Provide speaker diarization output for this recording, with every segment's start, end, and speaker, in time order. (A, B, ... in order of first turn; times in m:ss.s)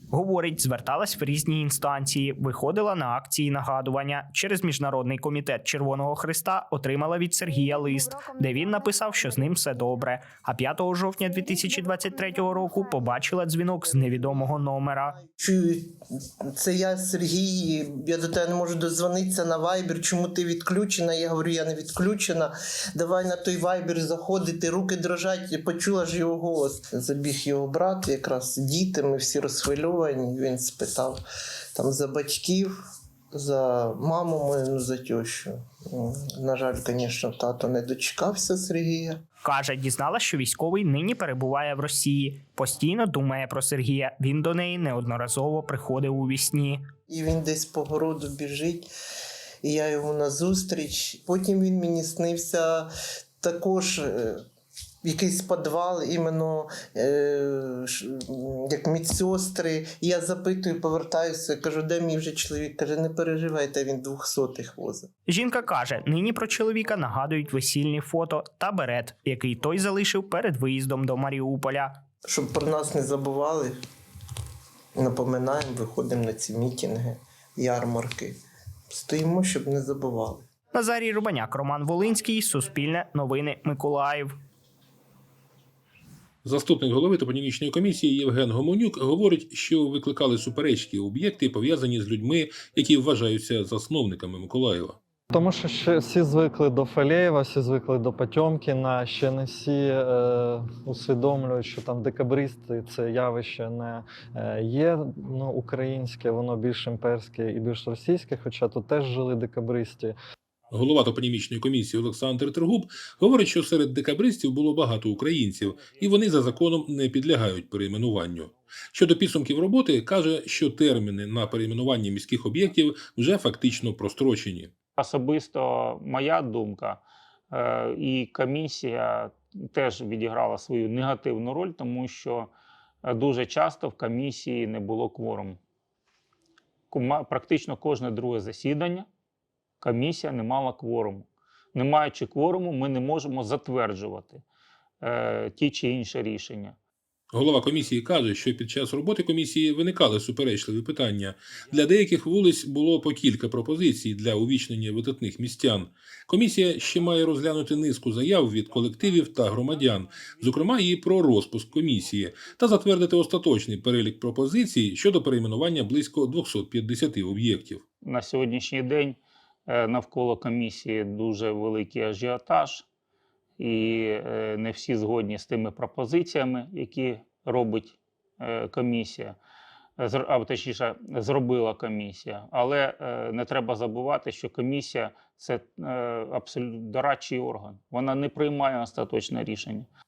0:00.1-0:15.2 A
0:15.3-0:16.0 B
0:16.6-0:31.2 B
0:31.8-0:32.7 B
0:33.3-0:39.2 B
0:39.4-0:46.8 A
0:47.1-0:48.9 B
0:49.6-0:52.9 B
0:53.4-0:54.4 B
0:55.0-1:05.1 B
1:05.3-1:12.0 A
1:12.3-1:13.8 B
1:15.0-1:18.4 B
1:18.9-1:20.4 B
1:20.7-1:24.3 A
1:26.4-1:35.0 C
1:35.3-1:50.2 D
1:50.7-2:04.7 C
2:05.0-2:12.5 E
2:13.0-2:15.6 E
2:16.9-2:19.1 E
2:19.8-2:24.4 E
2:25.0-2:26.8 E
2:27.3-2:47.8 C
2:48.0-2:52.8 E
2:53.6-2:59.4 E
3:00.0-3:09.9 E